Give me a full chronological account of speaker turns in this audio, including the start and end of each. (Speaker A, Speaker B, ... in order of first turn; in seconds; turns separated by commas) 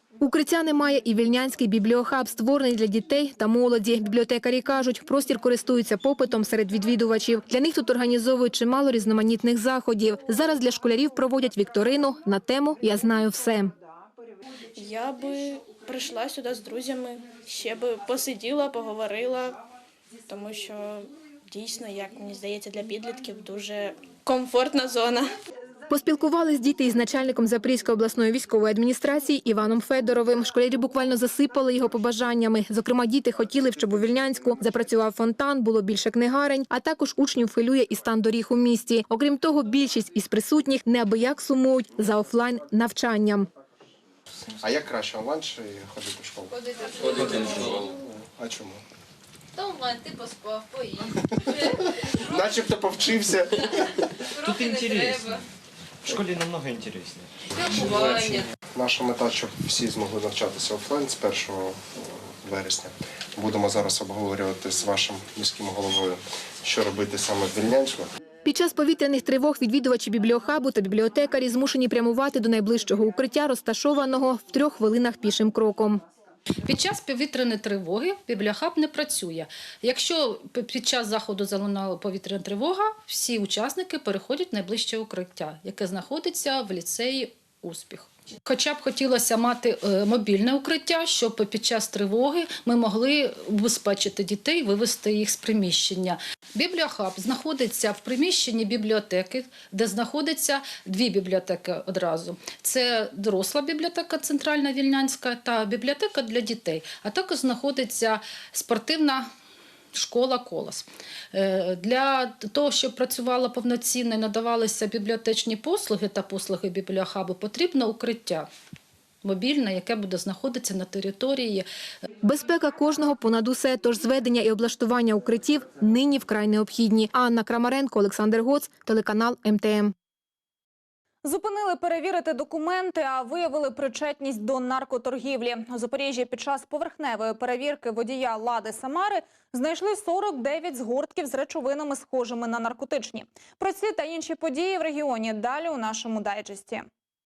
Speaker A: 0.2-13.7, Speaker B: 14.8-19.5, Speaker B: 20.3-25.2, Speaker A: 25.9-43.5, Speaker C: 44.6-48.8, Speaker D: 46.5-47.6, Speaker E: 47.1-47.9, Speaker D: 49.5-51.7, Speaker C: 52.3-53.8, Speaker D: 54.4-55.4, Speaker E: 54.4-55.3, Speaker E: 56.0-57.3, Speaker D: 57.5-58.5, Speaker C: 58.7-68.1, Speaker A: 68.4-76.0, Speaker F: 76.6-109.3, Speaker F: 109.9-118.5, Speaker F: 119.2-121.7, Speaker A: 122.2-129.9, Speaker G: 131.2-146.8